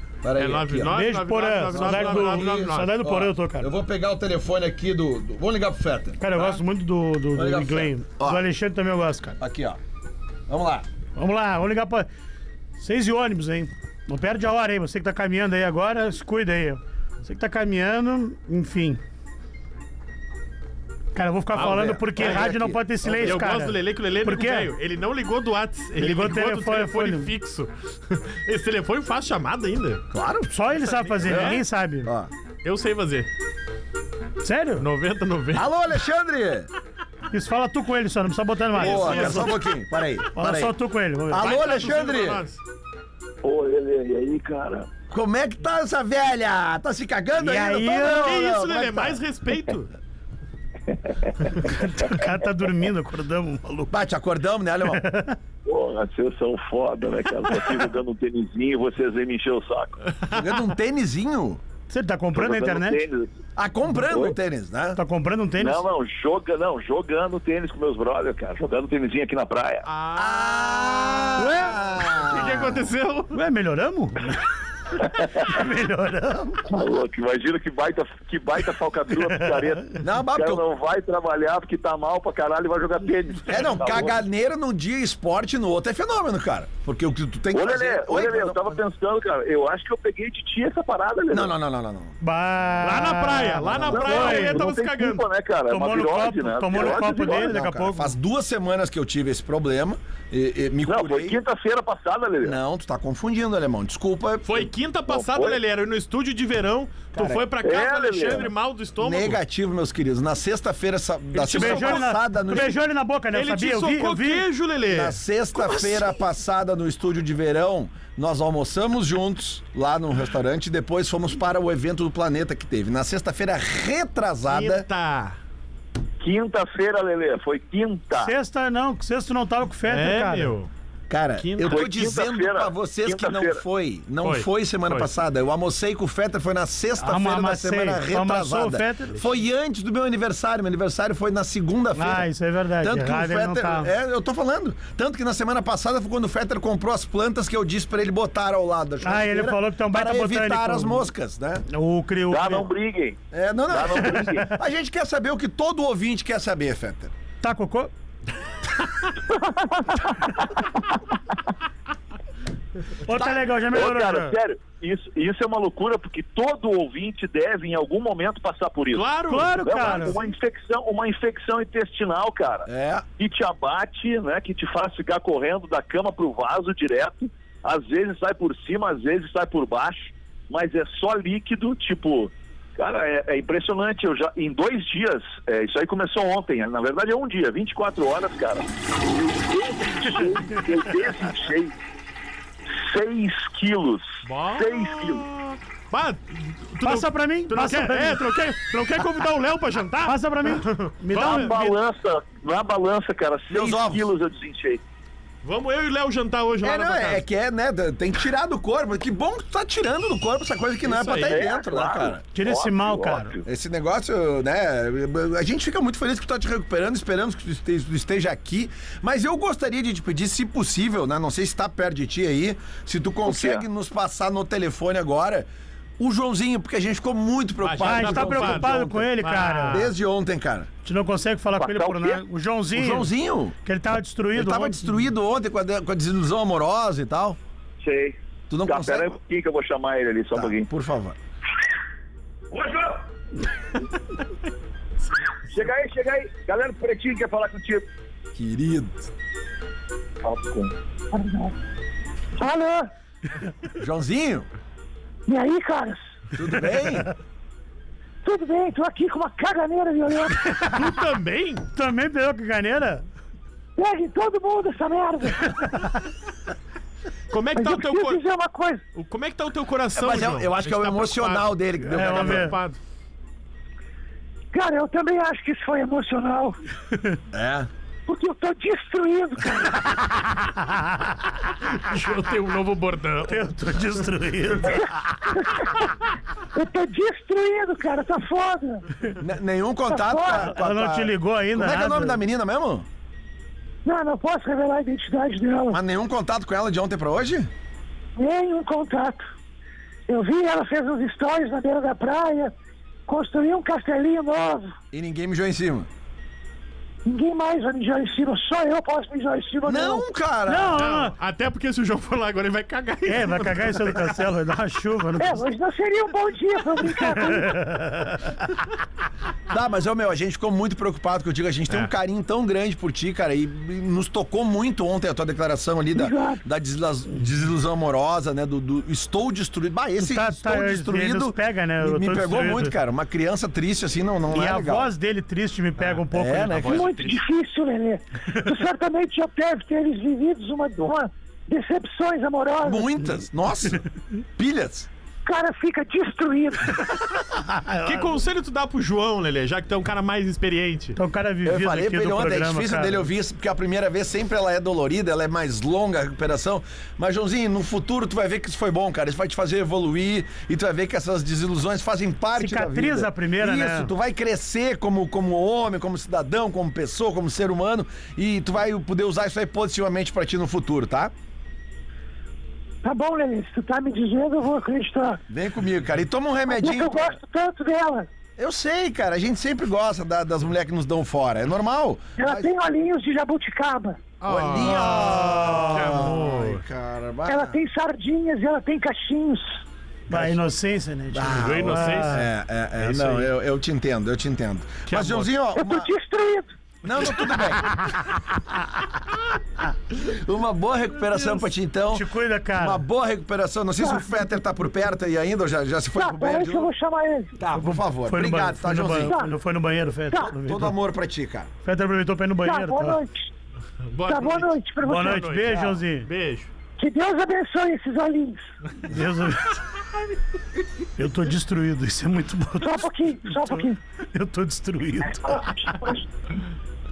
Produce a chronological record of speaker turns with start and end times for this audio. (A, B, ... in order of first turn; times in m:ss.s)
0:00.2-0:01.0 A
0:00.4-0:03.0 B
0:00.9-0:03.7 C
0:01.7-0:06.6 A
0:06.2-0:09.4 C
0:07.3-0:08.4 A
0:09.4-0:09.8 A
0:10.5-0:10.8 A
0:11.2-0:12.1 C
0:12.8-0:19.0 C
0:21.1-0:24.7 C
0:21.5-0:23.5 A
0:21.5-0:22.5 B
0:23.2-0:30.0 B
0:26.0-0:27.3 C
0:30.1-0:30.5 A
0:30.5-0:32.1 C
0:30.8-0:31.6 B
0:31.2-0:32.3 A
0:32.6-0:33.3 B
0:34.4-0:34.8 C
0:34.8-0:35.7 B
0:35.5-0:36.7 A
0:37.3-0:39.5 C
0:38.8-0:39.6 B
0:38.8-0:40.8 A
0:40.3-0:41.6 C
0:41.3-0:42.4 A
0:41.3-0:42.6 B
0:43.4-0:44.9 D
0:45.1-0:49.2 A
0:47.4-0:48.3 C
0:48.2-0:49.9 B
0:51.7-0:53.9 C
0:53.9-0:55.0 A
0:54.9-0:55.4 C
0:55.7-1:00.0 D
1:00.3-1:01.6 A
1:01.9-1:03.0 C
1:02.3-1:03.3 D
1:03.6-1:05.0 A
1:04.1-1:04.3 D
1:05.0-1:05.8 C
1:05.6-1:09.8 D
1:09.8-1:11.4 B
1:10.2-1:12.9 A
1:11.4-1:11.8 C
1:12.1-1:13.3 B
1:13.3-1:14.4 C
1:15.1-1:16.6 C
1:16.7-1:24.2 D
1:19.2-1:19.6 C
1:20.0-1:20.6 A
1:23.5-1:28.8 A
1:27.5-1:31.5 D
1:31.3-1:32.2 A
1:32.2-1:34.6 C
1:32.8-1:35.2 B
1:33.7-1:34.0 A
1:33.9-1:37.6 D
1:35.7-1:38.1 C
1:36.7-1:41.4 A
1:40.9-1:42.6 D
1:42.4-1:44.7 A
1:44.4-1:49.4 B
1:45.1-1:45.6 D
1:47.1-1:47.4 A
1:47.6-1:48.5 D
1:49.0-1:52.7 A
1:51.3-1:52.7 B
1:51.5-1:54.4 C
1:53.3-1:56.0 B
1:54.9-2:04.8 A
2:04.5-2:05.4 B
2:06.2-2:08.3 D
2:08.2-2:10.5 C
2:09.9-2:10.7 B
2:11.1-2:22.3 A
2:11.4-2:11.9 B
2:11.7-2:13.6 D
2:14.2-2:15.1 B
2:17.0-2:19.3 C
2:21.9-2:23.9 C
2:22.8-2:31.6 A
2:29.0-2:31.1 C
2:31.7-2:32.7 C
2:32.3-2:34.5 D
2:33.3-2:37.1 A
2:34.2-2:34.5 C
2:37.4-2:37.9 C
2:43.1-2:44.4 C
2:43.2-2:43.4 A
2:43.7-2:49.1 D
2:48.9-2:50.0 B
2:49.3-2:50.2 C
2:49.6-3:11.7 D
2:52.7-2:53.1 A
3:12.7-3:15.2 D
3:14.2-3:21.6 B
3:16.8-3:18.2 C
3:20.1-3:21.8 C
3:21.1-3:24.8 D
3:23.5-3:24.1 A
3:25.4-3:27.2 B
3:26.6-3:32.2 A
3:30.8-3:31.4 B
3:31.2-3:33.4 D
3:32.3-3:33.3 C
3:33.4-3:45.5 A
3:43.2-3:43.6 D
3:46.0-3:49.1 A
3:47.6-3:49.9 B
3:47.8-3:49.8 C
3:49.7-3:50.7 A
3:50.8-3:53.1 C
3:51.6-3:52.2 D
3:52.7-3:53.6 A
3:53.6-3:55.0 C
3:54.3-3:57.4 A
3:57.8-4:00.7 D
3:58.5-3:59.2 A
4:00.3-4:01.2 A
4:02.5-4:03.0 D
4:05.5-4:07.9 D
4:08.3-4:09.0 A
4:10.2-4:10.7 D
4:11.1-4:11.5 E
4:12.4-4:12.9 E
4:13.8-4:14.5 A
4:15.3-4:16.0 E
4:16.3-4:17.1 A
4:18.2-4:20.4 E
4:20.6-4:21.6 B
4:21.7-4:23.0 C
4:23.8-4:25.8 E
4:27.3-4:28.2 B
4:27.6-4:28.8 E
4:28.9-4:32.8 B
4:29.9-4:32.6 A
4:31.9-4:32.6 C
4:34.5-4:36.6 E
4:37.3-4:37.7 A
4:38.1-4:40.0 E
4:40.6-4:41.1 C
4:41.7-4:43.5 B
4:43.2-4:44.8 C
4:44.7-4:45.8 E
4:46.5-4:48.8 E
4:49.2-4:52.8 A
4:49.9-4:50.5 E
4:50.4-4:52.2 C
4:53.8-4:55.8 E
4:55.7-4:57.5 A
4:58.2-4:59.2 E
5:00.1-5:02.5 E
5:03.1-5:04.7 E
5:04.9-5:05.9 A
5:07.1-5:10.1 E
5:09.6-5:10.8 A
5:10.5-5:11.1 C
5:10.8-5:14.2 B
5:13.1-5:15.4 C
5:15.2-5:17.6 E
5:17.0-5:18.4 C
5:19.5-5:34.9 A
5:25.9-5:26.4 E
5:30.0-5:32.7 C
5:34.3-5:36.7 C
5:36.1-5:36.9 A
5:36.5-5:37.2 B
5:36.7-5:42.9 E
5:42.6-5:43.8 A
5:44.4-5:44.9 A
5:45.2-5:46.8 E
5:47.4-5:48.1 C
5:47.8-5:51.0 B
5:51.0-5:53.0 C
5:51.4-6:11.1 A
6:02.4-6:03.9 C
6:12.8-6:15.2 E
6:15.3-6:17.2 A
6:16.5-6:18.1 E
6:18.4-6:22.5 A
6:22.2-6:24.1 E
6:24.2-6:26.6 B
6:24.2-6:27.6 A
6:24.6-6:25.9 C
6:27.3-6:29.6 E
6:30.1-6:32.2 C
6:31.1-6:35.9 A
6:31.3-6:33.3 B
6:34.9-6:35.3 B
6:35.6-6:36.5 E
6:36.8-6:37.7 A
6:39.9-6:46.7 A
6:41.9-6:42.8 C
6:45.9-6:47.3 E
6:47.4-6:49.2 A
6:47.6-6:50.8 C
6:49.0-6:49.3 E
6:50.4-6:51.5 A
6:51.6-6:53.0 C
6:52.4-6:53.3 E
6:53.9-6:56.5 B
6:54.1-6:55.4 E
6:54.8-6:56.1 C
6:56.8-6:58.5 E
6:58.9-6:59.6 C
7:01.0-7:02.8 C
7:02.6-7:03.8 E
7:04.1-7:05.4 C
7:05.1-7:06.0 E